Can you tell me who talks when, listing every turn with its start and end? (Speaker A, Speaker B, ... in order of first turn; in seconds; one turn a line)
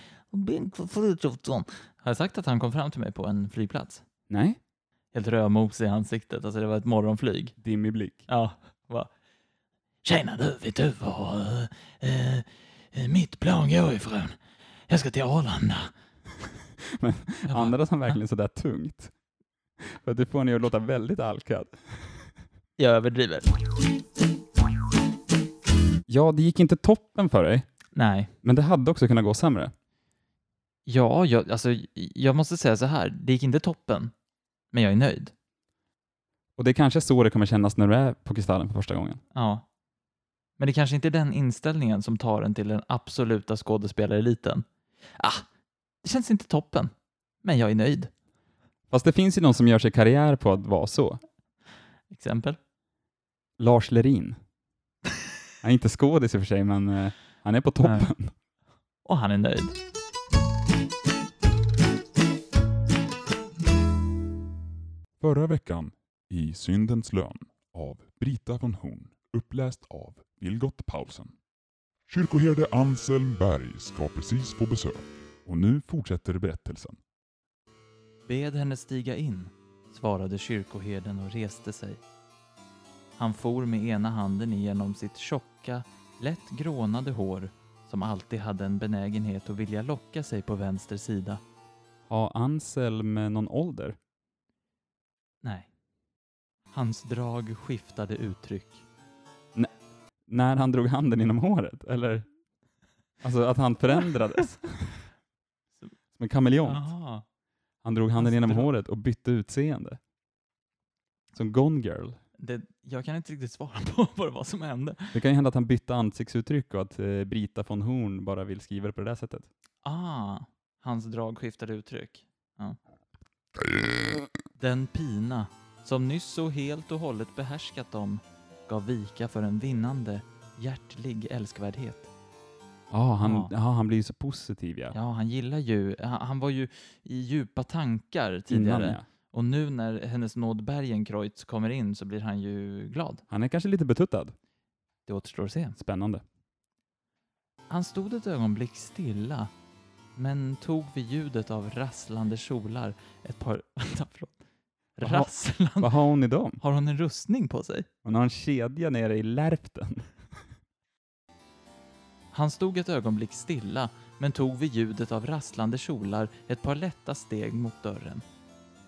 Speaker A: 0.3-4.0
Speaker B: 4.3-4.6
Speaker A: 5.1-7.5
Speaker B: 7.6-8.3
Speaker A: 8.3-9.1
Speaker A: 10.0-15.9
Speaker B: 16.9-19.1
Speaker A: 17.5-18.2
Speaker B: 19.8-22.3
Speaker A: 22.8-23.5
Speaker B: 26.1-27.7
Speaker A: 27.9-28.3
Speaker B: 28.4-29.7
Speaker A: 30.9-34.1
Speaker A: 34.7-35.3
Speaker B: 36.6-39.2
Speaker A: 39.3-39.6
Speaker A: 40.6-44.6
Speaker A: 45.2-45.5
Speaker A: 46.0-46.9
Speaker A: 47.4-48.1
Speaker B: 48.9-51.2
Speaker A: 52.1-52.6
Speaker B: 53.6-54.4
Speaker B: 55.6-58.3
Speaker A: 57.8-58.1
Speaker A: 59.0-59.7
Speaker B: 65.2-65.9
Speaker C: 66.3-71.3
Speaker C: 72.1-77.0
Speaker A: 78.2-82.0
Speaker A: 83.2-91.4
Speaker B: 92.1-94.0
Speaker A: 95.4-95.7
Speaker A: 96.7-98.8
Speaker B: 100.3-102.3
Speaker B: 103.2-105.0
Speaker B: 106.2-106.9
Speaker A: 106.6-107.2
Speaker B: 107.8-110.0
Speaker A: 108.2-108.7
Speaker B: 111.3-112.2
Speaker A: 112.4-115.2
Speaker B: 115.1-119.5
Speaker A: 119.8-122.8
Speaker A: 124.6-132.1
Speaker B: 132.9-135.0
Speaker A: 133.2-133.5
Speaker A: 134.9-143.2
Speaker B: 138.5-139.0
Speaker B: 143.3-144.3
Speaker A: 145.1-145.8
Speaker B: 145.8-146.2
Speaker A: 147.7-149.5
Speaker A: 150.2-154.4
Speaker A: 154.9-155.9
Speaker B: 155.0-156.6
Speaker A: 156.6-157.9
Speaker B: 158.0-160.4
Speaker A: 162.3-168.2